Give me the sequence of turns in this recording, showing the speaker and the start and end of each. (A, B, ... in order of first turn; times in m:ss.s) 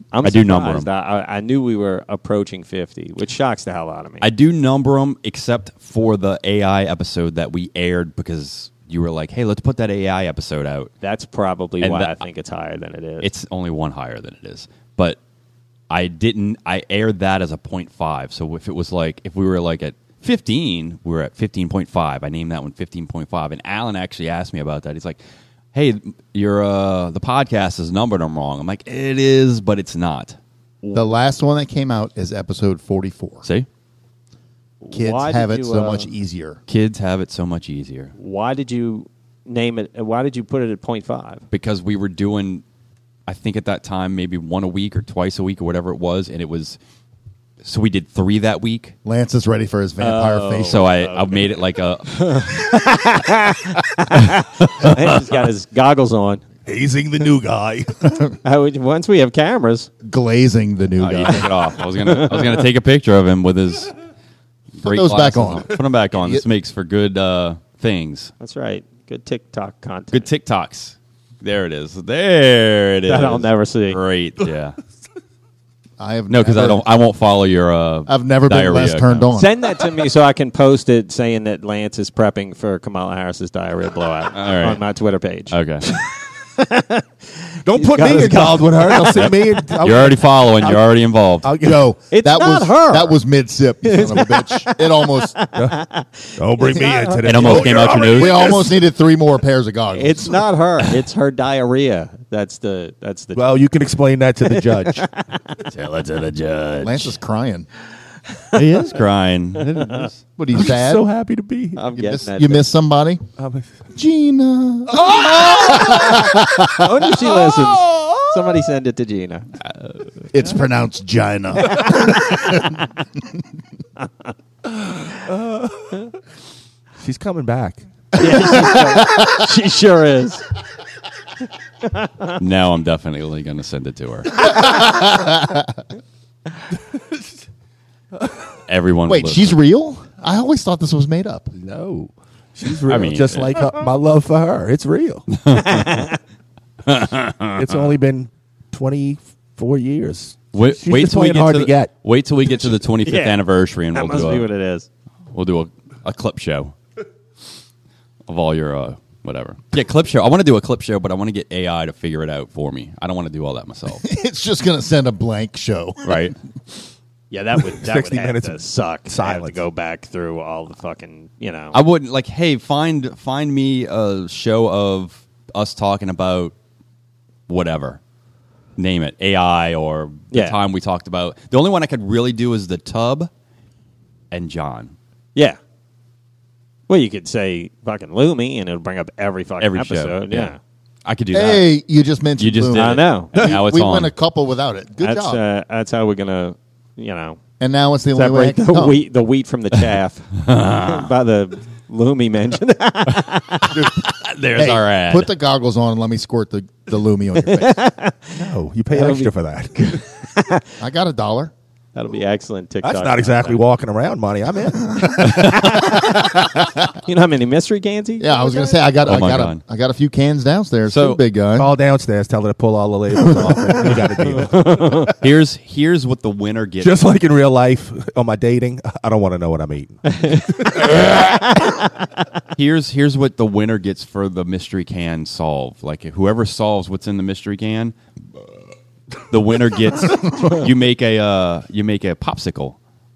0:00.1-0:04.3 A
0:00.2-0:00.9 B
0:04.2-0:10.9 B
0:11.0-0:13.3 A
0:11.8-0:12.2 B
0:13.2-0:15.2 B
0:15.9-0:25.2 B
0:25.7-0:30.4 B
0:30.8-0:31.1 A
0:30.9-0:33.4 C
0:34.8-0:36.1 A
0:34.9-0:36.6 C
0:36.7-0:38.1 B
0:38.2-0:41.4 A
0:41.5-0:42.6 B
0:43.3-0:46.8 B
0:47.6-0:48.9 B
0:49.0-0:50.9 C
0:50.0-0:51.5 A
0:50.6-0:52.6 B
0:52.1-0:56.4 A
0:54.6-0:55.2 B
0:56.7-0:58.2 D
0:58.4-0:59.9 A
1:00.0-1:01.6 C
1:01.0-1:03.9 B
1:02.1-1:02.6 A
1:04.8-1:08.3 B
1:04.8-1:06.4 C
1:08.4-1:10.3 A
1:10.1-1:14.8 B
1:13.1-1:14.0 A
1:16.0-1:16.8 C
1:16.3-1:19.3 B
1:18.1-1:19.6 C
1:19.4-1:25.6 A
1:24.4-1:24.8 B
1:25.5-1:25.9 B
1:26.6-1:29.4 A
1:27.6-1:30.9 D
1:29.0-1:31.5 B
1:31.4-1:31.8 D
1:31.6-1:35.4 C
1:32.1-1:33.2 A
1:33.8-1:37.8 A
1:36.4-1:38.6 D
1:37.2-1:38.6 B
1:38.1-1:40.4 C
1:39.9-1:43.6 A
1:43.4-1:45.0 D
1:44.4-1:45.6 A
1:45.7-1:47.1 B
1:46.8-1:47.7 C
1:48.5-1:50.2 B
1:49.7-1:50.1 A
1:50.4-1:51.1 C
1:50.5-1:51.8 D
1:51.8-1:52.7 A
1:52.0-1:53.2 C
1:53.4-1:53.7 D
1:53.9-1:57.1 C
1:56.7-1:59.5 A
2:00.3-2:02.8 C
2:01.6-2:02.7 A
2:05.3-2:06.0 D
2:07.0-2:07.8 D
2:08.2-2:10.5 A
2:08.2-2:09.4 C
2:11.8-2:12.4 A
2:12.4-2:14.5 B
2:14.4-2:15.8 C
2:18.7-2:19.6 B
2:19.1-2:21.6 C
2:21.6-2:25.3 D
2:22.9-2:23.6 B
2:25.3-2:26.1 B
2:25.5-2:26.2 A
2:26.9-2:27.9 B
2:27.6-2:31.9 D
2:30.5-2:34.5 B
2:33.0-2:33.4 A
2:33.9-2:34.9 A
2:35.3-2:36.7 B
2:38.3-2:44.0 B
2:44.0-2:46.3 C
2:46.0-2:46.4 B
2:47.3-2:51.8 A
2:47.8-2:49.6 D
2:51.7-2:56.5 B
2:57.5-2:58.0 B
2:58.8-3:03.3 B
3:00.3-3:00.6 A
3:04.3-3:04.9 B
3:06.9-3:10.6 A
3:09.6-3:10.5 B
3:11.0-3:11.7 B
3:11.3-3:15.4 C
3:12.4-3:14.1 B
3:12.8-3:13.3 A
3:15.0-3:17.4 A
3:17.6-3:19.0 C
3:18.2-3:23.8 A
3:20.4-3:21.1 B
3:23.7-3:24.0 C
3:23.8-3:25.3 B
3:24.5-3:27.8 C
3:27.5-3:30.7 A
3:28.4-3:30.0 D
3:30.8-3:31.5 C
3:32.0-3:33.6 A
3:32.8-3:35.4 D
3:34.9-3:36.8 C
3:35.2-3:35.6 B
3:35.4-3:38.6 A
3:38.2-3:41.7 C
3:39.0-3:39.6 B
3:40.9-3:41.2 B
3:41.6-3:45.1 D
3:43.3-3:44.0 C
3:44.3-3:45.1 A
3:45.2-3:47.0 B
3:46.8-3:51.0 D
3:50.1-3:52.1 A
3:52.6-3:58.0 B
3:59.3-4:02.8 B